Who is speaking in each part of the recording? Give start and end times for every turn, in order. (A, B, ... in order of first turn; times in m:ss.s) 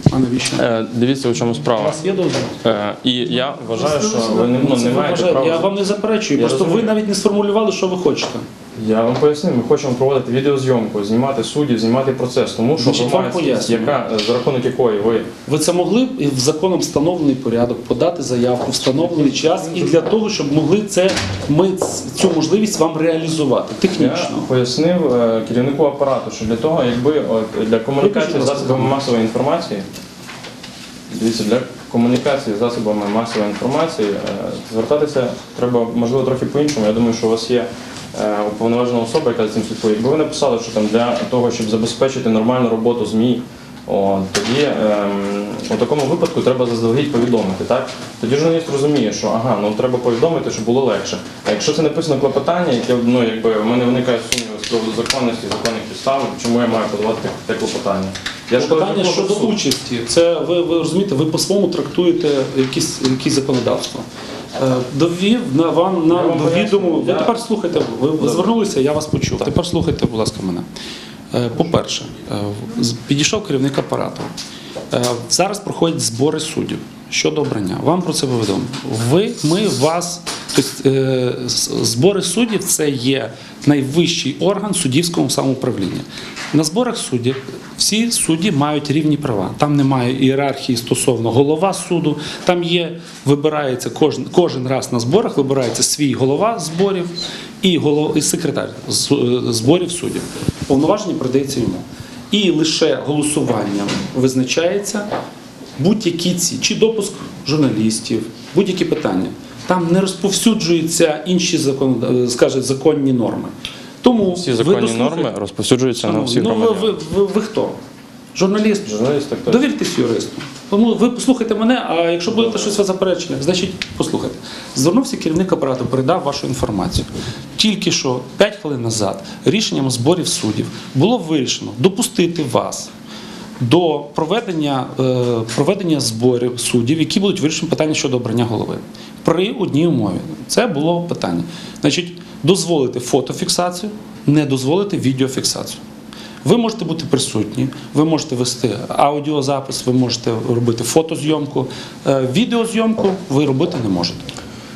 0:00.1-0:00.6 A
0:00.5-0:02.0 B
0:01.7-0:02.6 A
0:02.6-0:05.7 B
0:03.8-0:08.5 A
0:06.3-0:06.9 B
0:08.7-0:15.3 B
0:12.8-0:14.0 A
0:15.5-0:24.5 A
0:23.9-0:29.8 B
0:28.0-0:29.0 A
0:31.1-0:59.6 B
0:58.5-1:04.0 A
1:04.6-1:10.6 A
1:06.1-1:07.4 B
1:08.2-1:08.5 B
1:11.3-1:14.3 A
1:14.9-1:45.1 A
1:45.8-1:55.3 A
1:54.3-1:57.0 B
1:56.0-1:57.8 A
1:58.3-2:12.9 A
1:58.8-1:59.6 B
2:02.3-2:02.8 B
2:13.6-2:25.8 A
2:26.4-2:34.3 A